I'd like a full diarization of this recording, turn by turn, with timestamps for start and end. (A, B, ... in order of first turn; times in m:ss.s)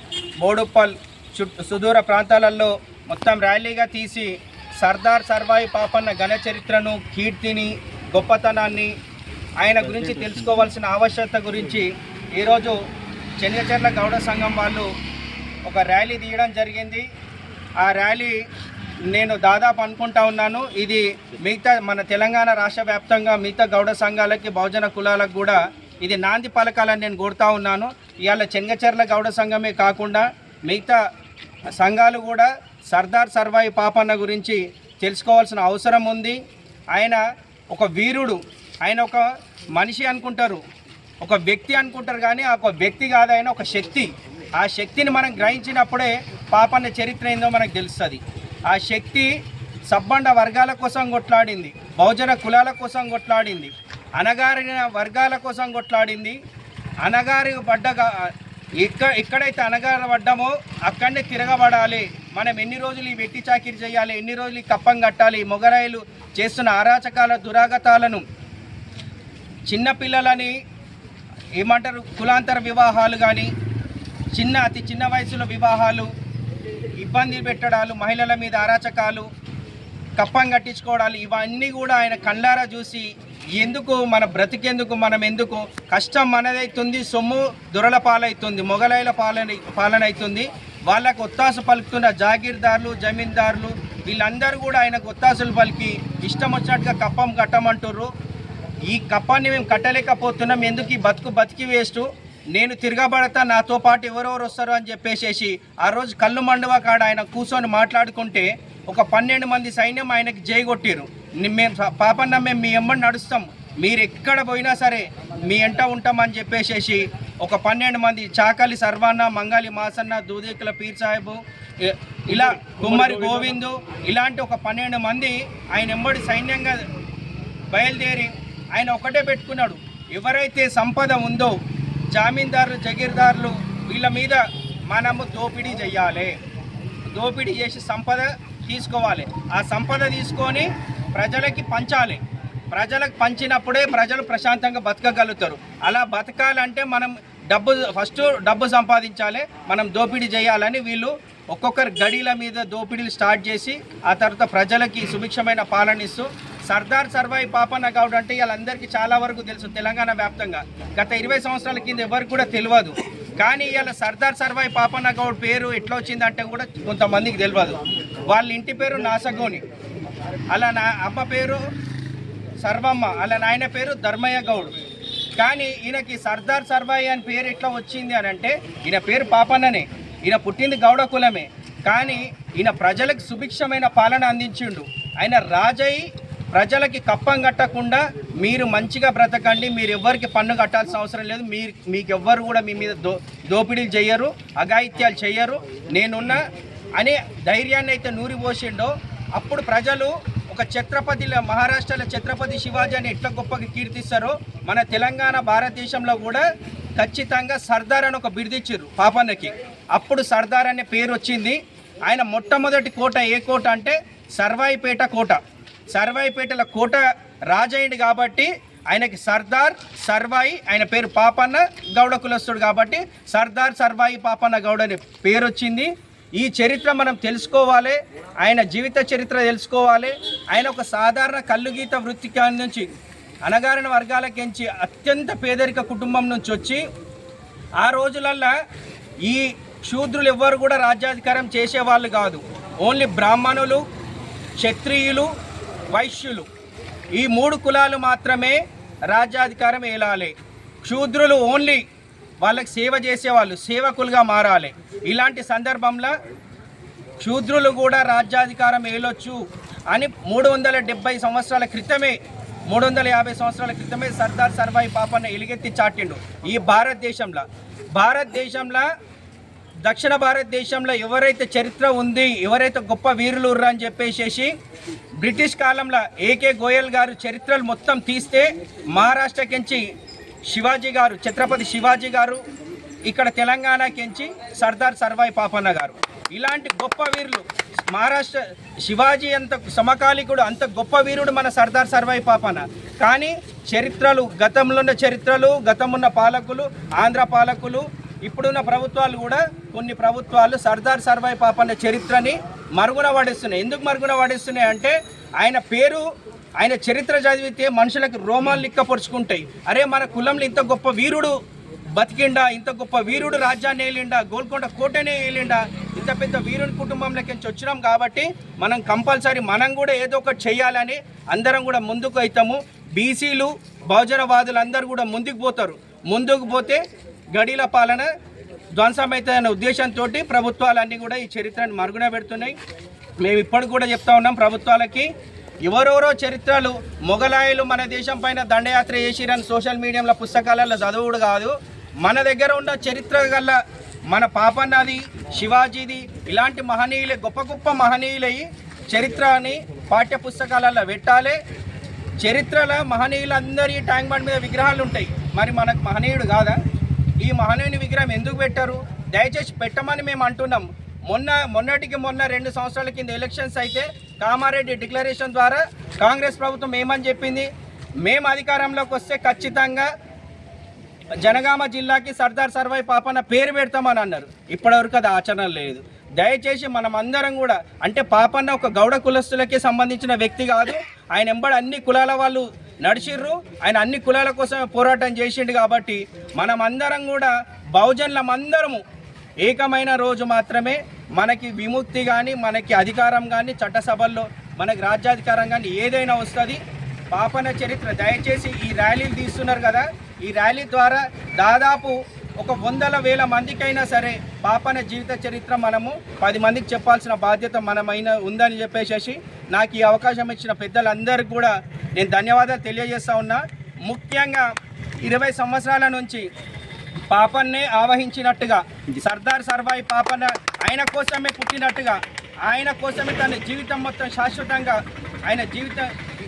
0:00.4-0:08.9 A
0:09.6-0:12.8 A
0:13.4-0:14.9 A
0:15.7-0:17.0 A
0:17.8-0:18.4 A
0:19.1-0:31.0 A
0:31.8-0:36.4 A
0:36.9-0:40.6 A
0:41.2-0:49.3 A
0:49.9-0:56.4 A
0:57.0-0:58.3 A
0:58.8-1:08.2 A
1:09.7-1:10.5 A
1:11.6-1:13.5 A
1:14.4-1:16.1 A
1:17.0-1:19.3 A
1:20.2-1:38.1 A
1:38.9-2:06.8 A
2:07.7-2:11.5 A
2:12.1-2:16.4 A
2:17.1-2:22.2 A
2:22.7-2:49.6 A
2:50.5-2:51.6 A
2:52.6-2:54.7 A
2:55.4-3:16.4 A
3:17.0-3:26.4 A
3:27.0-3:35.4 A
3:35.9-3:52.9 A
3:53.5-3:56.8 A
3:57.8-3:58.5 A
3:59.2-4:03.8 A
4:04.6-4:05.3 A
4:05.9-4:06.5 A
4:07.2-4:08.6 A
4:09.1-4:10.3 A
4:10.8-4:11.8 A
4:12.4-4:16.1 A
4:17.2-4:19.4 A
4:19.9-4:22.2 A
4:22.7-4:27.4 A
4:27.9-4:28.9 A
4:29.9-4:34.5 A
4:35.2-4:39.8 A
4:40.5-4:42.4 A
4:43.1-5:06.0 A
5:06.6-5:11.3 A
5:12.0-5:26.8 A
5:27.4-5:28.1 A
5:28.8-5:32.6 A
5:33.2-5:35.1 A
5:35.7-5:43.6 A
5:44.1-5:51.4 A
5:52.2-5:56.6 A
5:57.2-6:07.5 A
6:08.0-6:09.9 A
6:11.2-6:28.8 A
6:29.4-6:36.6 A
6:37.1-6:54.5 A
6:55.0-6:56.2 A
6:57.1-7:05.9 A